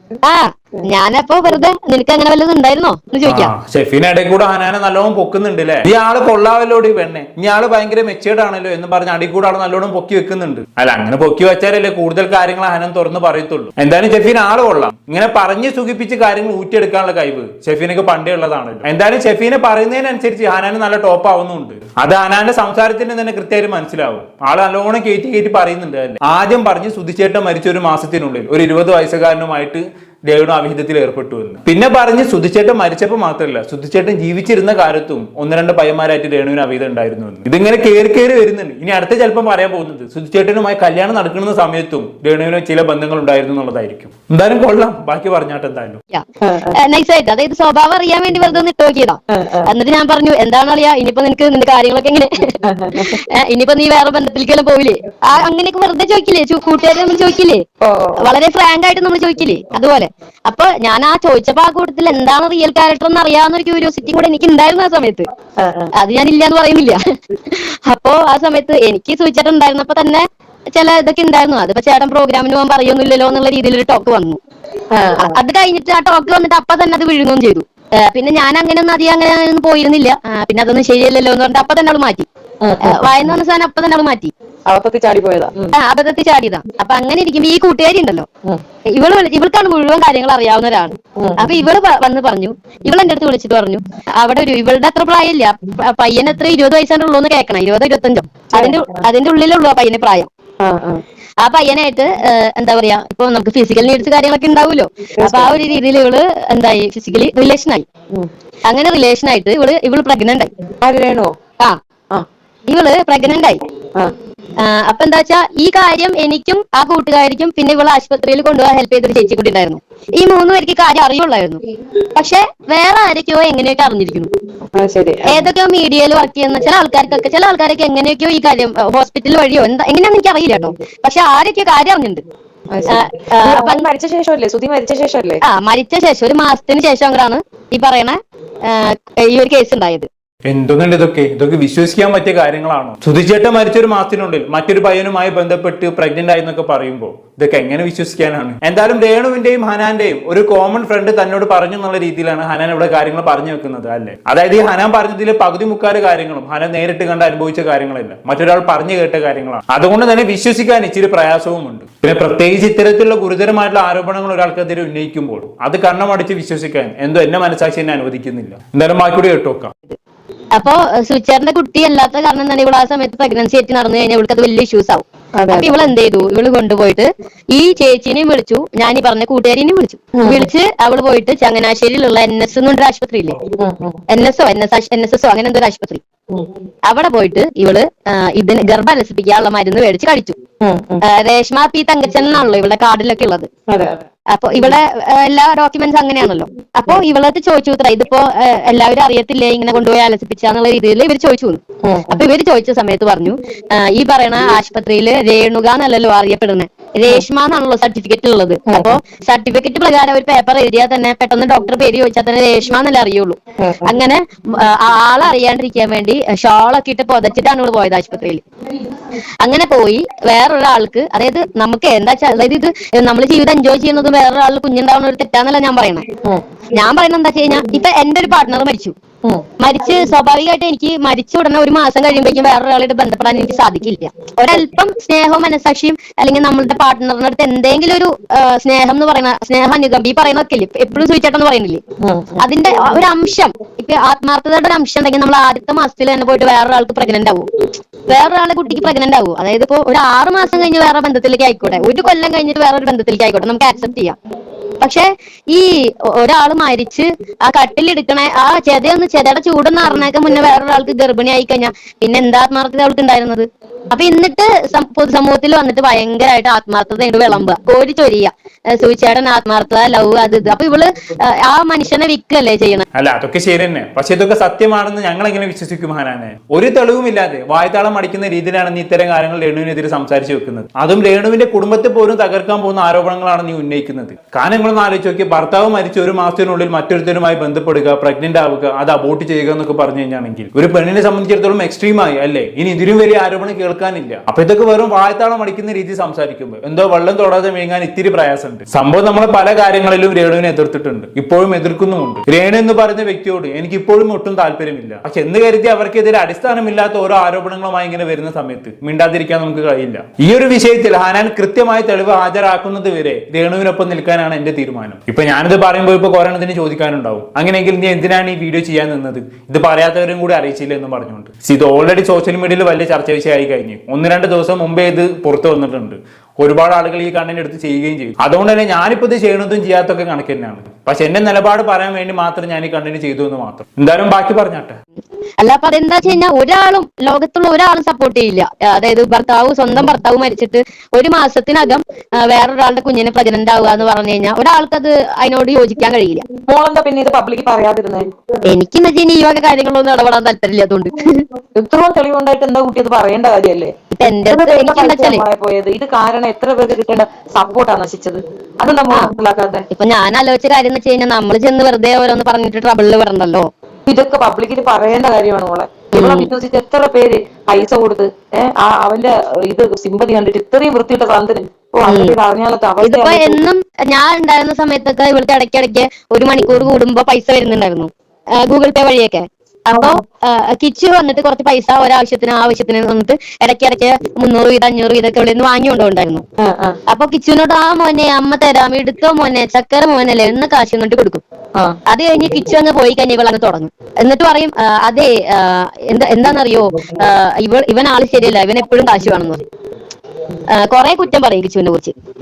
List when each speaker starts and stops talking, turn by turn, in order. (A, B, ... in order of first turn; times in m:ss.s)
0:00.2-0:03.5 A
0:03.2-0:46.0 B
0:46.1-0:57.6 A
0:46.4-0:46.8 C
0:49.3-0:49.7 C
0:52.6-0:53.2 C
0:57.8-0:58.3 C
0:58.2-1:05.3 A
1:05.6-1:05.9 C
1:06.0-1:14.4 A
1:14.9-1:15.3 C
1:15.2-1:22.3 A
1:22.6-1:23.1 C
1:22.8-1:24.3 A
1:24.7-1:25.7 C
1:25.7-1:28.3 A
1:28.9-1:40.3 A
1:31.2-1:31.5 C
1:38.5-1:39.0 C
1:40.6-1:41.0 C
1:41.4-1:47.8 A
1:45.2-1:45.6 C
1:48.7-1:50.5 A
1:50.8-1:51.3 C
1:52.7-1:53.6 A
1:54.6-2:01.6 A
2:02.1-2:04.3 A
2:04.7-2:05.5 C
2:05.3-2:12.2 A
2:12.7-2:15.4 C
2:12.9-2:13.8 A
2:15.4-2:20.1 A
2:20.5-2:49.8 B
2:50.5-3:03.4 A
2:55.4-2:55.7 C
3:00.2-3:00.5 C
3:03.6-3:04.0 C
3:04.1-3:06.0 A
3:06.9-3:10.4 A
3:10.6-3:11.0 C
3:11.0-3:13.5 A
3:13.7-3:14.0 C
3:14.3-3:38.4 A
3:21.8-3:22.2 C
3:28.7-3:28.9 C
3:33.6-3:33.9 C
3:39.4-3:46.0 A
3:46.7-3:49.0 A
3:49.6-4:01.8 A
4:02.0-4:02.4 C
4:02.4-4:07.5 A
4:08.1-4:14.2 A
4:14.8-4:32.8 A
4:32.9-5:34.8 B
5:35.4-5:46.2 A
5:46.5-5:48.1 C
5:48.4-5:51.2 A
5:51.6-5:53.7 C
5:53.9-5:55.2 A
5:54.2-5:59.7 C
5:59.7-6:03.5 A
6:03.9-6:13.4 C
6:05.9-6:06.3 A
6:11.9-6:12.1 A
6:12.8-6:26.2 A
6:19.8-6:20.0 C
6:26.4-6:26.8 C
6:26.9-6:31.2 A
6:31.9-6:39.4 A
6:40.5-6:41.9 A